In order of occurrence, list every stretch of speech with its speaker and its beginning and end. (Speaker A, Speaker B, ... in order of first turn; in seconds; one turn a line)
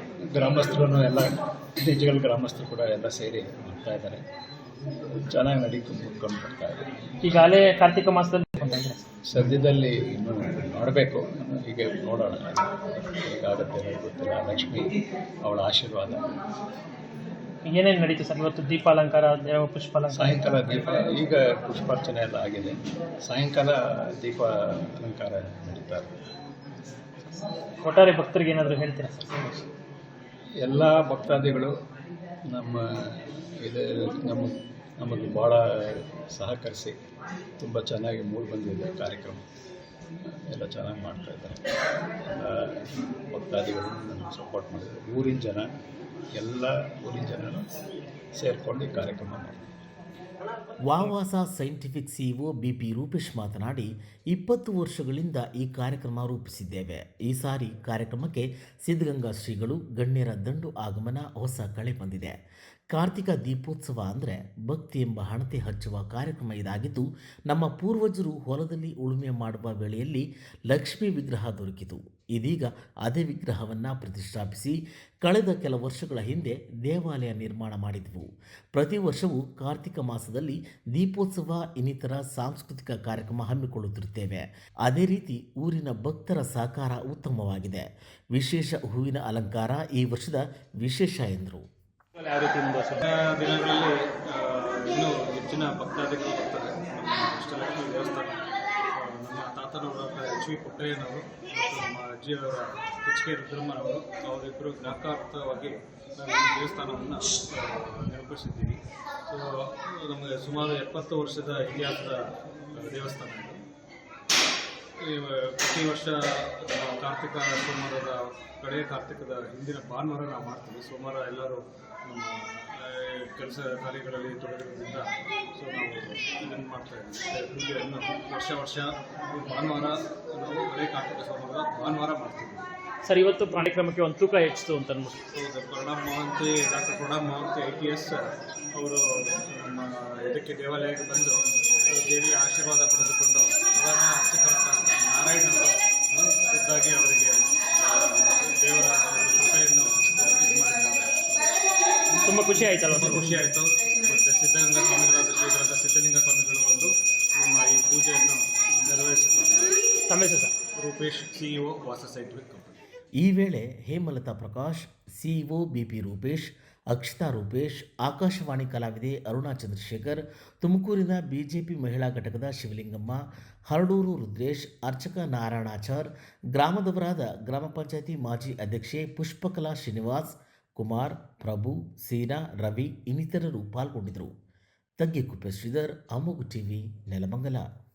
Speaker A: 0.3-4.2
Speaker A: 5.3-6.9
Speaker B: 7.2-9.0
Speaker A: 9.3-16.3
Speaker B: 17.6-20.5
Speaker A: 20.1-26.1
Speaker B: 27.8-29.7
Speaker A: 30.6-31.7
Speaker A: 32.5-37.0
Speaker A: 37.6-39.5
Speaker A: 40.5-41.6
Speaker A: 42.3-45.7
Speaker A: 46.4-47.6
Speaker A: 48.4-49.7
Speaker C: 50.8-62.4
Speaker C: 62.9-91.7
Speaker B: 92.2-93.0
Speaker D: 93.0-98.4
Speaker D: 98.9-113.6
Speaker D: 115.0-132.7
Speaker B: 133.1-135.2
Speaker D: 135.3-151.5
Speaker B: 152.3-153.4
Speaker D: 152.5-159.8
Speaker B: 160.1-160.5
Speaker D: 160.7-162.8
Speaker C: 163.2-184.3
Speaker C: 185.0-187.7